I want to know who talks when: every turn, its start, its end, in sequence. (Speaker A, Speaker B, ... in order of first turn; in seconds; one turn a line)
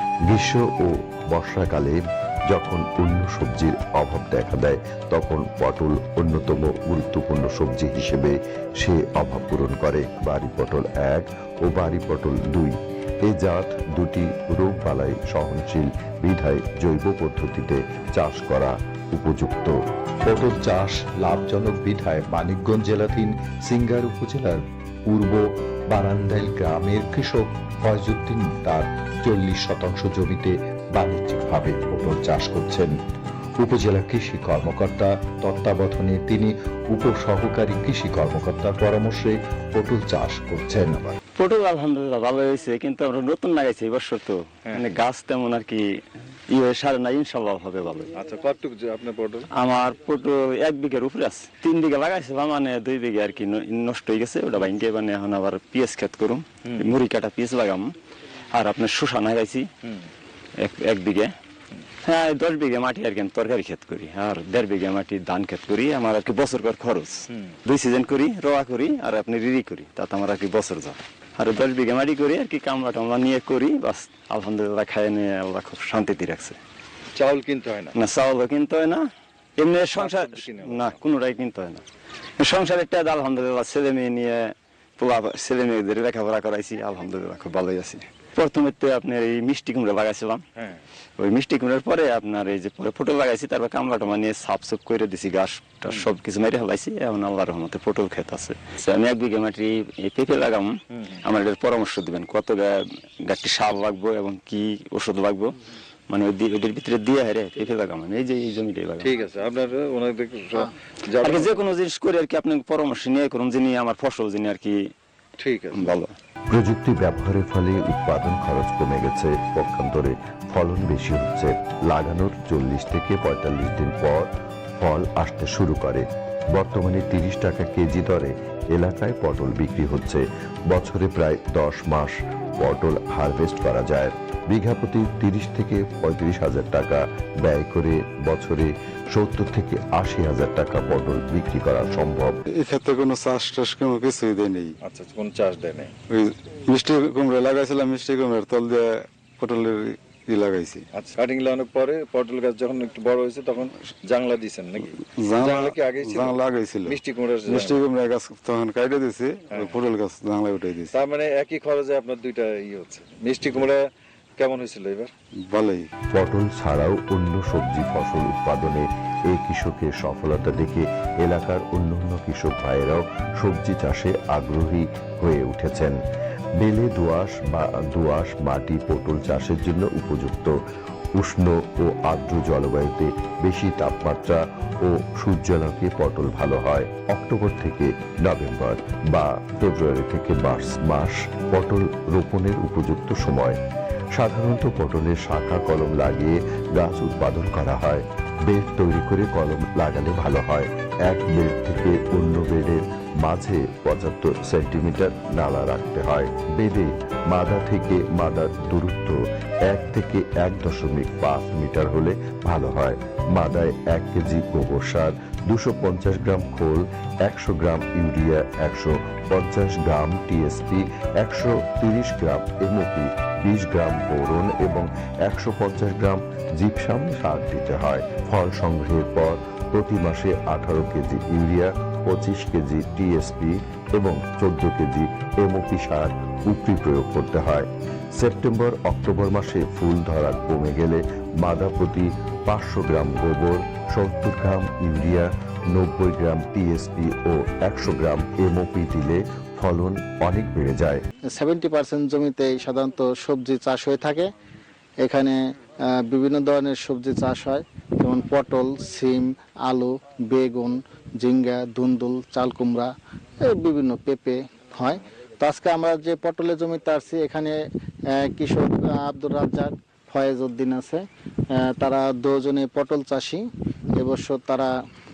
Speaker A: 0.3-19.8
Speaker A: 20.3-32.9
Speaker A: 33.6-41.1
Speaker B: 41.4-45.9
Speaker B: 46.5-48.1
Speaker C: 48.2-49.5
Speaker B: 49.6-57.9
Speaker B: 58.5-59.7
Speaker B: 60.6-61.3
Speaker B: 62.1-76.6
Speaker C: 77.2-78.0
Speaker B: 78.0-79.1
Speaker B: 79.6-81.8
Speaker C: 80.0-81.0
Speaker B: 82.4-90.4
Speaker C: 90.6-90.8
Speaker B: 91.2-105.5
Speaker B: 106.1-109.1
Speaker C: 109.0-111.5
Speaker B: 111.2-114.8
Speaker C: 115.4-115.9
Speaker B: 115.7-116.1
Speaker A: 116.5-142.4
Speaker D: 142.5-144.7
Speaker C: 144.8-145.9
Speaker D: 146.1-150.8
Speaker C: 150.9-157.8
Speaker D: 155.0-160.9
Speaker C: 159.5-159.8
Speaker C: 160.9-165.1
Speaker D: 165.4-165.9
Speaker A: 166.2-176.0
Speaker A: 176.6-180.5
Speaker A: 181.2-193.6
Speaker A: 194.2-251.0
Speaker E: 251.4-254.3
Speaker E: 255.0-267.6
Speaker E: 268.1-271.0
Speaker E: 271.6-274.7